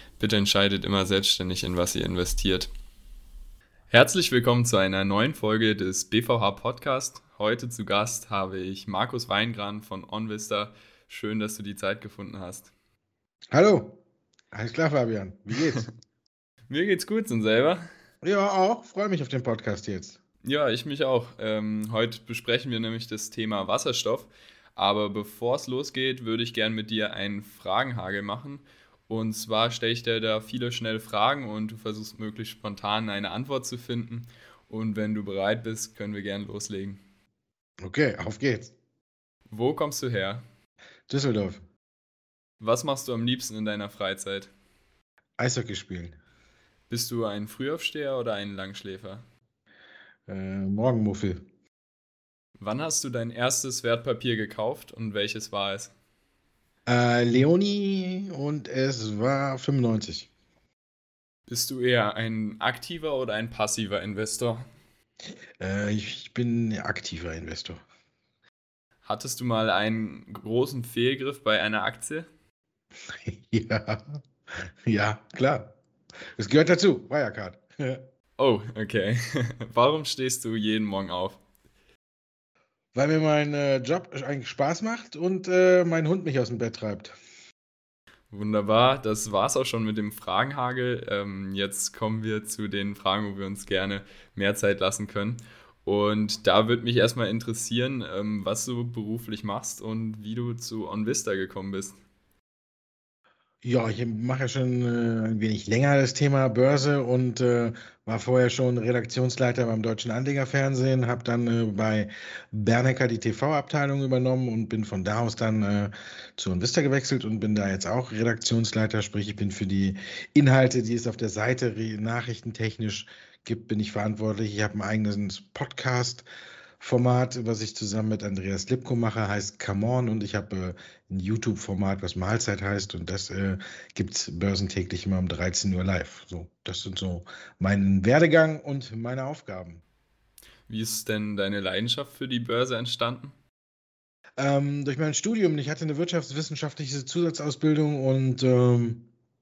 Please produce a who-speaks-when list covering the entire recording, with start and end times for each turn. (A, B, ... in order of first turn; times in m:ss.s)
0:00.2-0:02.7 A
0:03.9-0:12.7 A
0:13.5-0:14.0 B
0:14.5-0:15.8 B
0:16.7-0:17.9 A
0:18.2-0:20.2 B
0:20.4-0:37.0 A
0:37.8-0:38.7 B
0:39.5-0:40.4 A
0:41.1-0:41.6 B
0:42.6-0:44.5 A
0:45.4-0:46.2 B
0:46.9-0:49.2 A
0:50.3-0:51.4 B
0:52.6-0:55.9 A
0:56.9-1:00.3 B
1:01.5-1:04.7 A
1:05.6-1:07.8 B
1:09.0-1:12.3 A
1:13.1-1:14.2 B
1:14.9-1:15.8 B
1:16.4-1:18.0 B
1:18.4-1:21.4 A
1:22.9-1:27.2 B
1:28.3-1:42.0 A
1:43.6-2:06.2 B
2:06.8-2:19.8 B
2:20.7-2:23.4 A
2:24.4-2:29.0 B